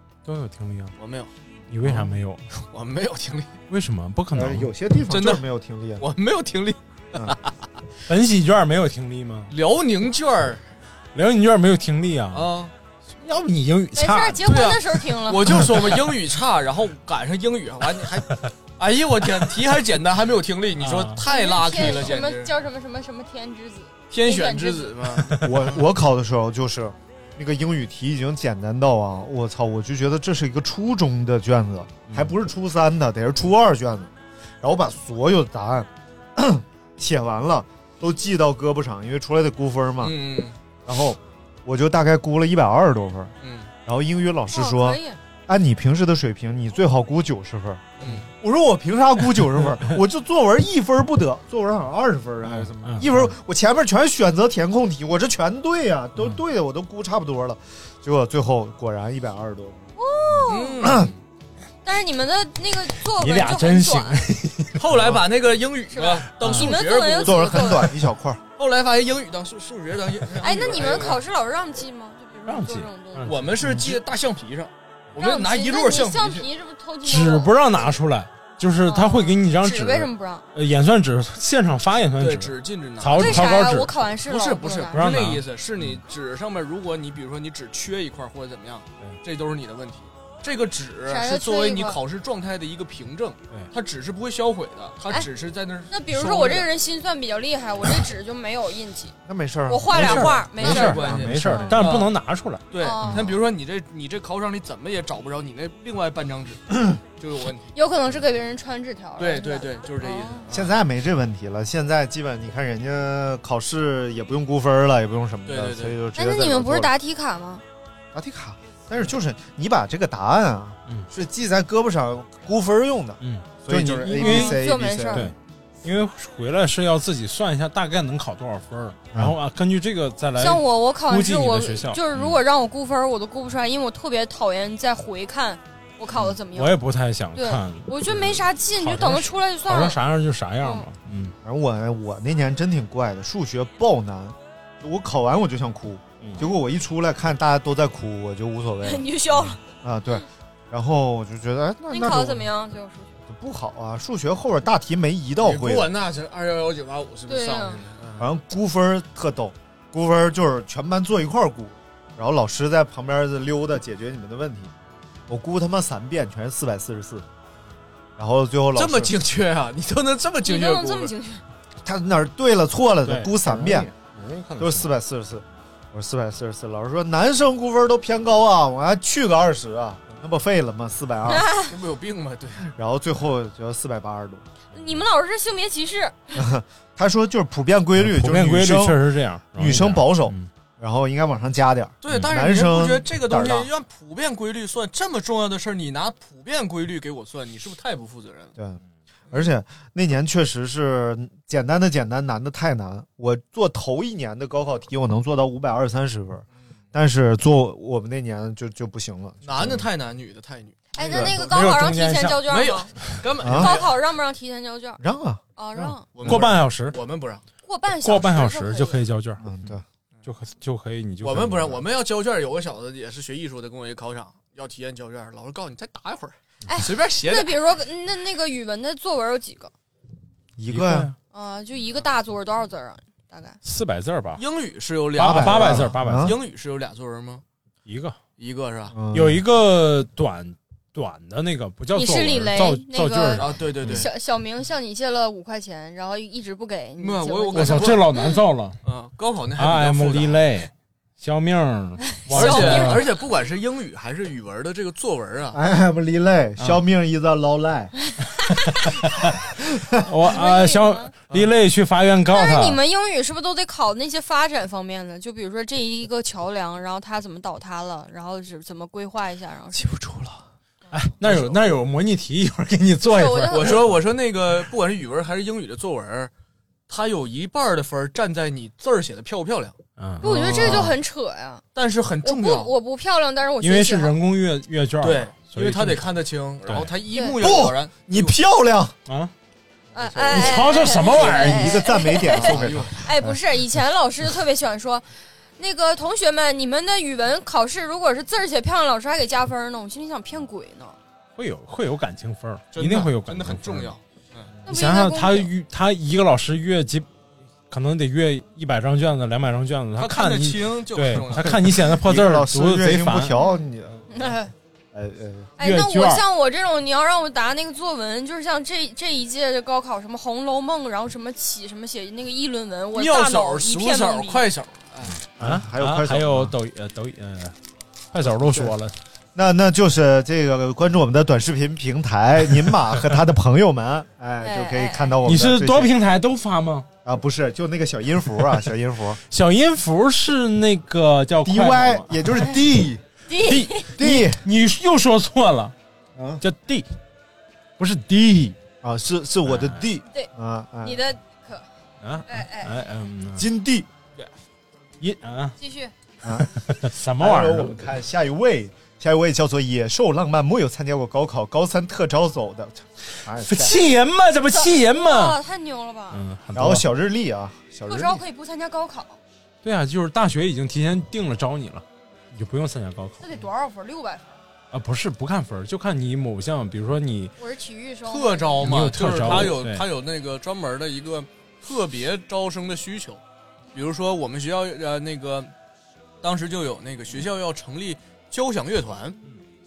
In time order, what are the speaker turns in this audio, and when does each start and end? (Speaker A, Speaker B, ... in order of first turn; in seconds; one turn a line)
Speaker A: 0.2-0.9
Speaker B: 1.0-1.3
Speaker A: 1.7-2.4
Speaker B: 2.7-3.5
Speaker A: 3.7-4.7
Speaker C: 4.3-6.1
Speaker B: 5.1-5.5
Speaker B: 6.0-7.5
Speaker A: 8.1-9.5
Speaker B: 9.5-10.6
Speaker A: 11.1-12.5
Speaker B: 12.3-12.7
Speaker A: 13.2-14.8
Speaker D: 13.9-15.5
Speaker B: 14.5-22.5
Speaker A: 20.8-21.2
Speaker D: 21.2-25.0
Speaker B: 24.1-25.8
Speaker C: 25.4-40.2
Speaker B: 40.0-40.6
Speaker C: 40.9-43.3
Speaker B: 43.4-43.7
Speaker C: 43.9-59.9
Speaker D: 44.5-45.2
Speaker B: 48.0-48.3
Speaker A: 52.5-53.3
Speaker D: 60.0-61.0
Speaker B: 60.5-61.1
Speaker C: 60.8-61.1
Speaker D: 61.9-64.2
Speaker A: 63.1-65.1
Speaker B: 64.8-67.9
Speaker D: 65.9-67.9
Speaker A: 66.4-66.7
Speaker C: 67.2-68.4
Speaker B: 68.6-71.2
Speaker D: 70.4-73.3
Speaker A: 72.5-74.0
Speaker B: 73.2-76.5
Speaker D: 75.2-77.6
Speaker A: 77.0-84.0
Speaker D: 78.9-80.5
Speaker B: 82.2-83.5
Speaker D: 83.2-85.0
Speaker B: 84.3-96.7
Speaker A: 84.9-86.0
Speaker D: 91.1-92.0
Speaker D: 95.9-99.2
Speaker C: 99.3-100.4
Speaker D: 99.7-101.8
Speaker B: 99.9-102.1
Speaker A: 100.0-103.1
Speaker C: 101.0-101.3
Speaker B: 102.7-107.7
Speaker D: 102.8-103.2
Speaker D: 107.8-110.5
Speaker B: 109.2-110.5
Speaker C: 110.5-116.9
Speaker B: 115.5-116.0
Speaker D: 116.2-117.6
Speaker C: 118.1-125.3
Speaker A: 123.2-124.6
Speaker D: 124.2-125.3
Speaker A: 125.1-132.4
Speaker D: 130.4-136.8
Speaker A: 136.5-141.3
Speaker D: 137.3-140.0
Speaker D: 140.6-140.9
Speaker C: 141.4-152.5
Speaker A: 146.2-146.5
Speaker D: 148.8-149.6
Speaker D: 151.9-153.2
Speaker C: 153.3-155.9
Speaker B: 155.4-158.3
Speaker D: 157.3-157.8
Speaker C: 158.2-164.7
Speaker C: 165.3-167.3
Speaker C: 168.2-169.2
Speaker B: 168.8-171.1
Speaker D: 170.4-171.4
Speaker C: 171.8-173.9
Speaker A: 173.1-174.9
Speaker C: 174.6-181.5
Speaker D: 181.3-181.7
Speaker B: 181.7-182.7
Speaker C: 182.7-184.4
Speaker D: 184.7-186.4
Speaker C: 186.4-189.0
Speaker A: 188.0-190.5
Speaker C: 189.6-193.7
Speaker B: 192.0-198.5
Speaker C: 199.3-209.8
Speaker B: 209.4-211.7
Speaker D: 210.9-212.9
Speaker A: 211.2-213.2
Speaker B: 212.5-214.0
Speaker C: 213.4-213.8
Speaker D: 213.5-215.0
Speaker C: 215.0-216.4
Speaker D: 215.6-216.1
Speaker B: 216.2-217.4
Speaker A: 216.2-217.0
Speaker D: 217.7-219.1
Speaker A: 218.0-221.8
Speaker C: 219.4-219.8
Speaker B: 221.2-227.6
Speaker D: 226.7-229.7
Speaker C: 230.6-231.1
Speaker A: 230.7-231.2
Speaker D: 231.3-233.6
Speaker A: 233.6-234.4
Speaker B: 234.4-237.4
Speaker A: 235.2-236.4
Speaker C: 235.2-236.3
Speaker A: 237.8-238.2
Speaker B: 238.4-239.0
Speaker C: 238.9-239.4
Speaker A: 239.1-244.0
Speaker D: 241.9-248.3
Speaker B: 243.4-244.1
Speaker B: 247.0-248.1
Speaker A: 247.5-248.8
Speaker B: 248.8-250.4
Speaker A: 249.6-253.1
Speaker D: 252.2-253.1
Speaker B: 252.3-255.6
Speaker C: 255.5-257.9
Speaker A: 260.1-262.8
Speaker D: 260.2-261.1
Speaker D: 262.3-269.8
Speaker A: 270.9-273.9
Speaker B: 271.2-271.8
Speaker D: 273.0-273.8
Speaker B: 273.5-276.3
Speaker B: 276.9-279.8
Speaker A: 280.0-280.9
Speaker D: 280.2-281.6
Speaker C: 280.2-280.9
Speaker B: 281.8-282.7
Speaker D: 282.2-284.2
Speaker A: 283.6-286.1
Speaker B: 285.0-288.3
Speaker A: 286.7-286.9
Speaker C: 287.4-288.9
Speaker A: 289.1-289.3
Speaker D: 289.9-295.1
Speaker B: 290.0-291.3
Speaker A: 290.3-291.8
Speaker C: 291.2-293.4
Speaker B: 292.3-293.0
Speaker D: 295.6-301.0
Speaker A: 301.4-303.9
Speaker B: 302.7-304.5
Speaker D: 304.7-305.5
Speaker A: 304.7-307.1
Speaker A: 307.7-313.4
Speaker B: 310.0-311.5
Speaker C: 311.4-314.3
Speaker D: 313.4-314.5
Speaker C: 314.9-315.5
Speaker D: 315.6-324.4
Speaker A: 315.6-316.2
Speaker B: 322.9-325.2
Speaker A: 325.1-327.6
Speaker C: 325.4-326.6
Speaker A: 328.1-328.9
Speaker C: 328.2-328.7
Speaker C: 329.4-335.9
Speaker D: 334.4-335.2
Speaker A: 335.2-336.9
Speaker C: 337.1-339.2
Speaker A: 339.3-342.4
Speaker C: 341.4-343.0
Speaker D: 343.3-343.9
Speaker A: 343.4-345.7
Speaker C: 343.9-344.4
Speaker C: 346.2-346.4
Speaker A: 346.4-346.9
Speaker A: 347.8-348.6
Speaker C: 348.8-351.0
Speaker A: 349.5-349.8
Speaker D: 350.8-351.7
Speaker A: 352.0-353.4
Speaker D: 352.3-352.7
Speaker C: 353.4-353.9
Speaker A: 355.0-355.6
Speaker D: 355.6-355.9
Speaker A: 356.3-357.9
Speaker C: 357.2-363.8
Speaker A: 363.4-365.4
Speaker D: 364.5-366.2
Speaker A: 366.1-366.9
Speaker C: 366.5-368.2
Speaker D: 367.9-369.2
Speaker A: 369.6-373.2
Speaker D: 373.2-374.3
Speaker A: 374.7-377.3
Speaker D: 377.4-378.7
Speaker B: 378.1-383.2
Speaker A: 378.6-379.9
Speaker B: 383.7-385.5
Speaker B: 386.2-389.2